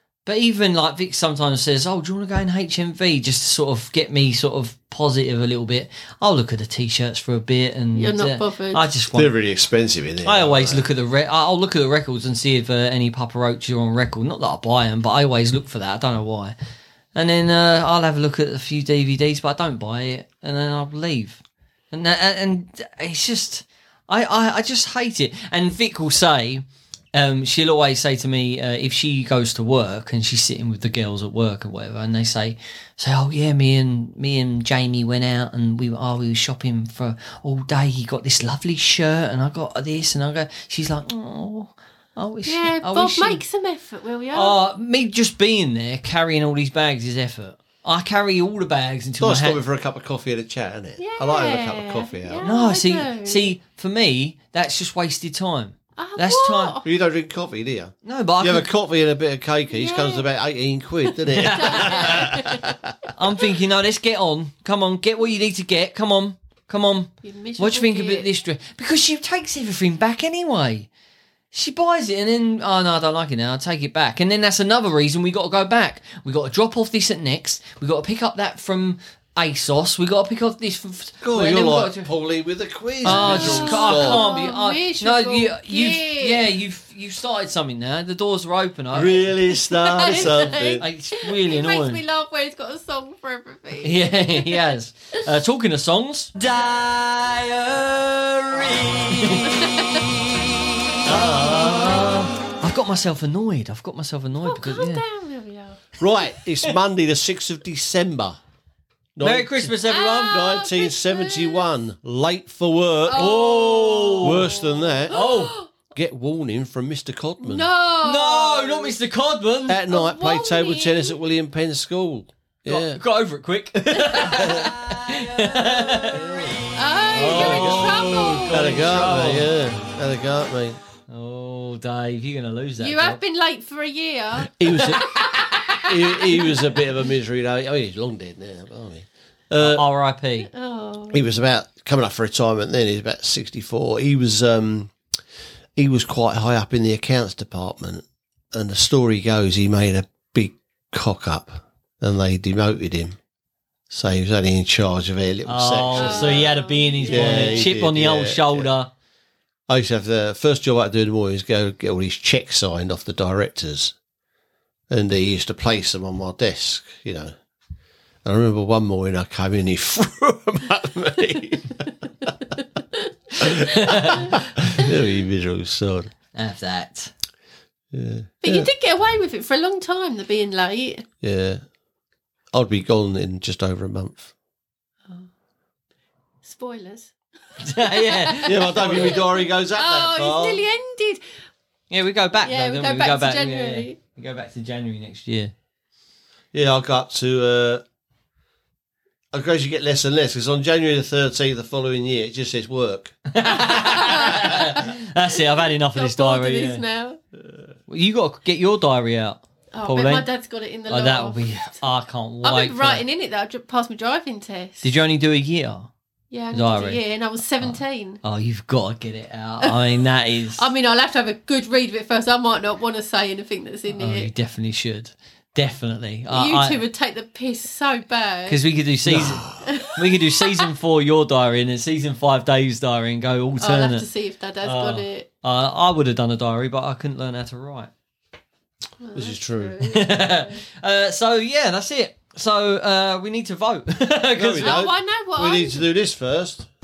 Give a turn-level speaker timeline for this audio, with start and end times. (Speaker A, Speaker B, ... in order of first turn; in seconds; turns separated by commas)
Speaker A: 0.2-9.3, Speaker B: 8.0-8.8, Speaker C: 9.1-10.8, Speaker A: 10.2-16.5, Speaker A: 17.1-21.4, Speaker A: 21.9-43.4, Speaker B: 42.5-44.5, Speaker A: 44.3-49.6, Speaker C: 49.2-52.4, Speaker B: 51.0-53.5, Speaker A: 52.4-56.8, Speaker B: 56.0-56.9, Speaker C: 56.8-62.8, Speaker A: 58.0-58.7, Speaker B: 59.7-60.3, Speaker A: 61.3-62.4, Speaker B: 61.4-62.7, Speaker A: 63.1-70.9, Speaker B: 67.2-68.3, Speaker A: 71.5-82.1, Speaker C: 81.2-84.4, Speaker A: 83.0-89.3, Speaker B: 83.0-86.5, Speaker C: 88.9-90.8, Speaker B: 89.5-94.7, Speaker A: 90.0-92.0, Speaker A: 93.8-100.0, Speaker B: 99.4-100.1, Speaker A: 101.0-105.0, Speaker B: 101.6-102.0, Speaker B: 104.4-105.8, Speaker C: 106.0-108.4, Speaker C: 109.2-113.6, Speaker A: 109.2-110.5, Speaker B: 109.8-111.7, Speaker B: 113.1-115.7, Speaker A: 113.1-114.5, Speaker C: 114.2-115.2, Speaker A: 115.1-115.5, Speaker C: 115.8-117.7, Speaker B: 117.4-118.9, Speaker A: 118.0-119.8, Speaker C: 119.7-123.0, Speaker B: 119.9-121.1, Speaker A: 122.7-126.6, Speaker B: 123.9-124.7, Speaker C: 124.3-124.7, Speaker B: 125.5-126.2, Speaker C: 126.1-126.6, Speaker B: 126.7-128.9, Speaker A: 127.1-129.5, Speaker C: 127.2-130.8, Speaker A: 131.1-133.2, Speaker B: 132.8-136.7, Speaker C: 134.5-135.1, Speaker A: 134.7-135.0, Speaker C: 135.8-139.8, Speaker A: 139.6-140.5, Speaker B: 140.4-141.2, Speaker C: 141.1-144.9, Speaker C: 145.8-153.2, Speaker C: 153.9-156.6, Speaker A: 155.4-158.9, Speaker B: 155.9-157.7, Speaker C: 157.1-158.7, Speaker C: 159.7-163.9, Speaker C: 164.9-167.3, Speaker C: 168.2-172.3, Speaker C: 173.4-176.1, Speaker A: 173.6-174.4, Speaker A: 176.3-177.1, Speaker C: 177.9-178.7, Speaker B: 178.4-181.1, Speaker C: 181.2-181.6, Speaker C: 182.5-184.3, Speaker B: 186.4-191.2, Speaker A: 187.6-189.2, Speaker C: 188.4-190.6, Speaker A: 191.9-195.5, Speaker B: 192.4-194.0, Speaker C: 196.5-197.8, Speaker C: 199.3-203.2, Speaker A: 203.3-206.8, Speaker B: 203.5-207.2, Speaker A: 207.9-210.3, Speaker B: 209.7-211.8, Speaker A: 210.9-213.0, Speaker B: 212.4-214.9, Speaker A: 214.8-215.9, Speaker B: 216.3-218.2, Speaker A: 216.5-217.0, Speaker A: 217.6-220.6, Speaker B: 219.6-219.9, Speaker B: 220.6-224.3, Speaker A: 223.9-226.8, Speaker B: 226.3-228.6, Speaker A: 228.5-234.1, Speaker C: 229.0-229.6, Speaker B: 229.6-230.7, Speaker B: 233.6-235.3, Speaker A: 234.6-237.9, Speaker B: 239.0-240.6, Speaker C: 239.1-239.8, Speaker A: 239.8-244.9, Speaker C: 244.4-246.7, Speaker B: 244.6-245.8